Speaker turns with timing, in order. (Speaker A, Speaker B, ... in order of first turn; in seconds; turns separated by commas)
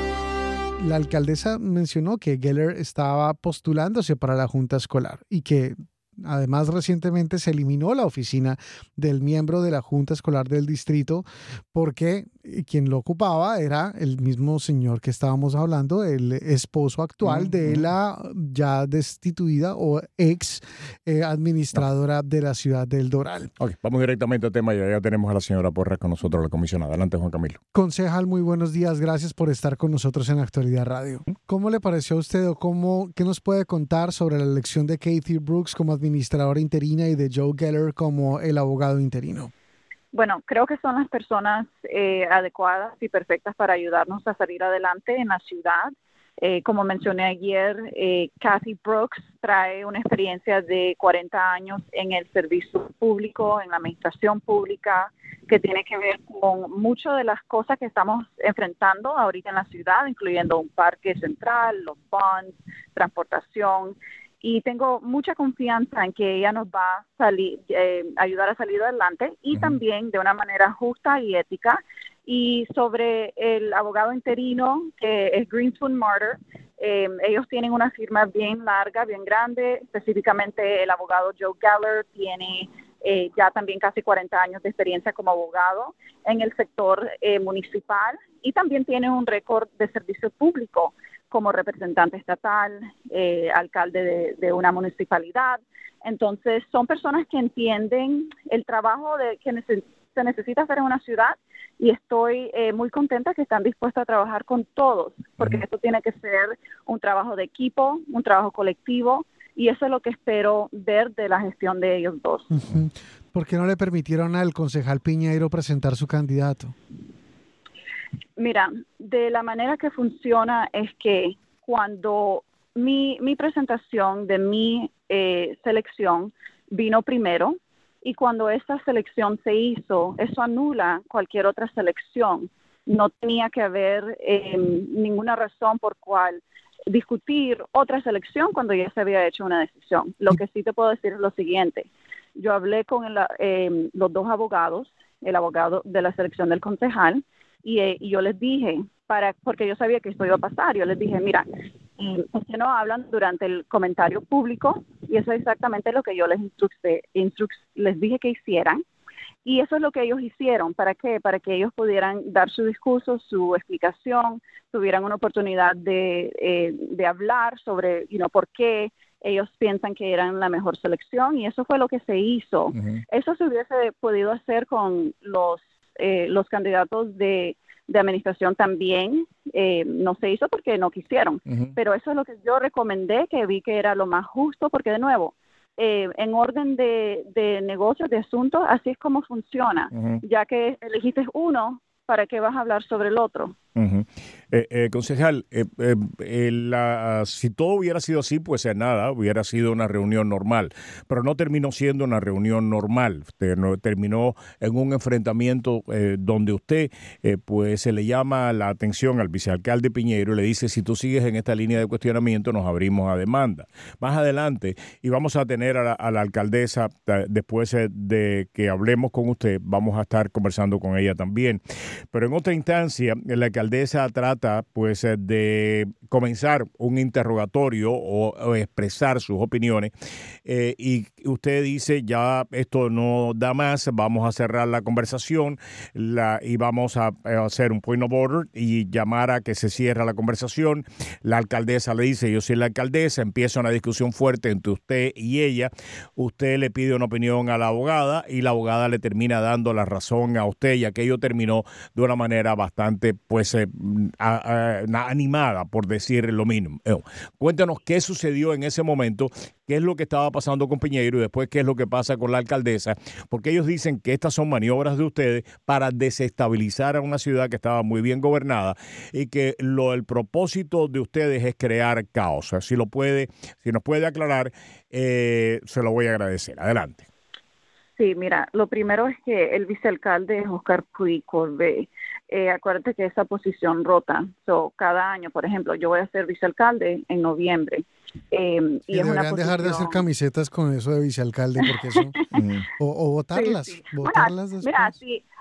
Speaker A: 0.8-23.5, Speaker B: 17.2-17.9, Speaker B: 23.6-27.6, Speaker A: 27.7-39.5, Speaker C: 40.1-112.5, Speaker B: 69.5-69.8, Speaker A: 112.5-116.7, Speaker C: 118.4-151.5, Speaker C: 152.0-158.8, Speaker C: 159.4-193.5, Speaker B: 172.8-173.0, Speaker B: 189.9-190.2, Speaker B: 193.8-221.6, Speaker B: 222.1-229.9, Speaker B: 230.4-277.1, Speaker C: 278.0-290.0, Speaker A: 288.9-292.2, Speaker B: 292.4-292.6, Speaker A: 292.8-294.9, Speaker C: 293.4-295.2